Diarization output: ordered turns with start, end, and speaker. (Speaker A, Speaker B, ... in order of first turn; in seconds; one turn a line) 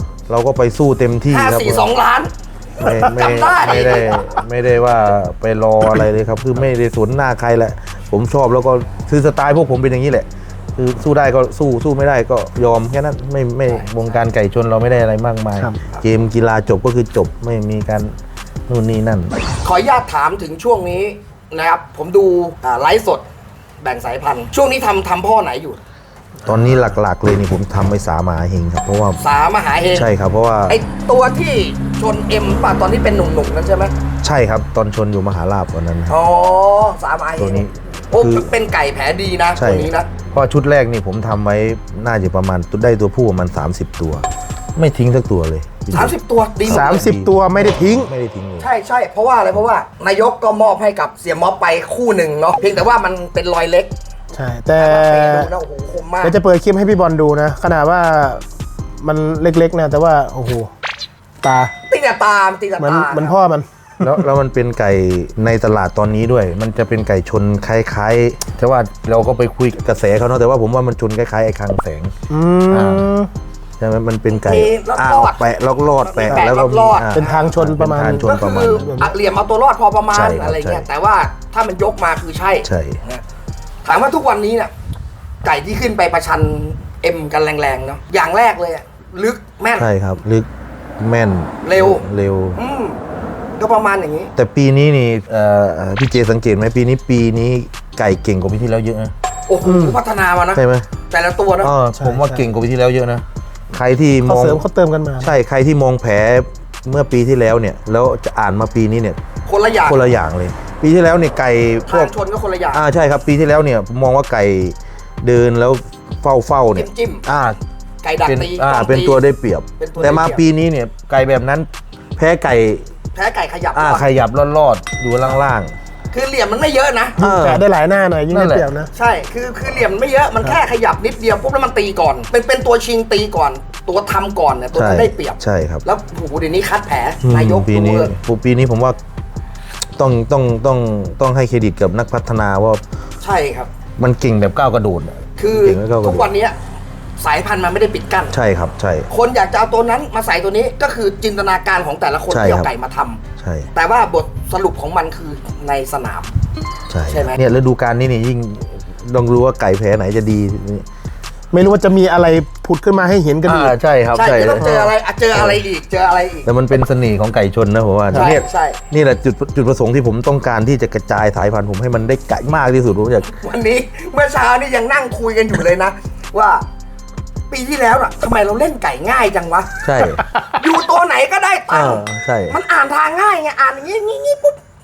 Speaker A: 0.3-1.9
Speaker B: 1.3-4.4
Speaker A: 2.8-18.1
Speaker B: 13.7-14.2
Speaker A: 18.7-19.4
Speaker B: 19.6-23.2
Speaker B: 23.8-25.8
Speaker A: 26.4-29.2
Speaker B: 29.2-30.1
Speaker A: 29.9-30.8
Speaker B: 30.7-33.9
Speaker A: 34.2-36.2
Speaker B: 36.1-40.1
Speaker A: 37.4-38.5
Speaker A: 39.5-48.7
Speaker B: 45.9-47.0
Speaker C: 46.7-48.1
Speaker B: 48.6-53.9
Speaker C: 54.3-55.5
Speaker B: 54.8-56.4
Speaker C: 56.2-58.4
Speaker C: 59.0-60.7
Speaker C: 61.4-61.7
Speaker B: 61.9-63.3
Speaker C: 62.8-64.2
Speaker A: 64.0-72.1
Speaker C: 72.3-73.3
Speaker A: 72.7-73.1
Speaker A: 73.8-78.9
Speaker B: 74.3-77.4
Speaker C: 77.1-79.1
Speaker B: 78.2-83.2
Speaker A: 80.1-80.8
Speaker A: 82.6-83.0
Speaker B: 83.8-84.7
Speaker B: 85.4-89.9
Speaker A: 89.8-92.6
Speaker B: 91.6-93.0
Speaker B: 93.6-94.3
Speaker A: 94.3-99.1
Speaker B: 99.5-101.7
Speaker C: 99.6-100.0
Speaker A: 100.5-100.9
Speaker A: 101.6-104.6
Speaker C: 102.0-102.4
Speaker C: 104.2-105.3
Speaker A: 105.2-109.2
Speaker B: 109.5-110.1
Speaker A: 109.8-112.1
Speaker B: 111.8-112.8
Speaker A: 112.7-117.6
Speaker B: 116.7-117.2
Speaker B: 118.0-119.2
Speaker A: 118.2-122.9
Speaker B: 119.8-120.4
Speaker B: 123.1-124.0
Speaker A: 123.7-125.7
Speaker B: 126.1-127.2
Speaker A: 127.2-127.6
Speaker C: 127.2-128.9
Speaker A: 128.3-128.7
Speaker B: 128.9-138.1
Speaker A: 134.7-135.8
Speaker A: 137.2-139.0
Speaker A: 139.9-142.8
Speaker B: 143.2-143.7
Speaker A: 144.0-146.3
Speaker B: 145.4-146.6
Speaker B: 147.2-148.3
Speaker A: 148.3-149.1
Speaker B: 149.1-153.2
Speaker A: 152.3-152.7
Speaker A: 153.4-153.7
Speaker B: 153.7-156.3
Speaker A: 156.9-160.8
Speaker B: 157.1-157.4
Speaker C: 161.5-163.7
Speaker A: 163.4-165.6
Speaker B: 164.1-166.5
Speaker C: 164.6-164.9
Speaker A: 166.4-173.3
Speaker B: 168.1-168.8
Speaker B: 173.3-176.6
Speaker B: 177.5-179.8
Speaker A: 179.8-180.2
Speaker B: 180.5-184.6
Speaker A: 181.7-182.6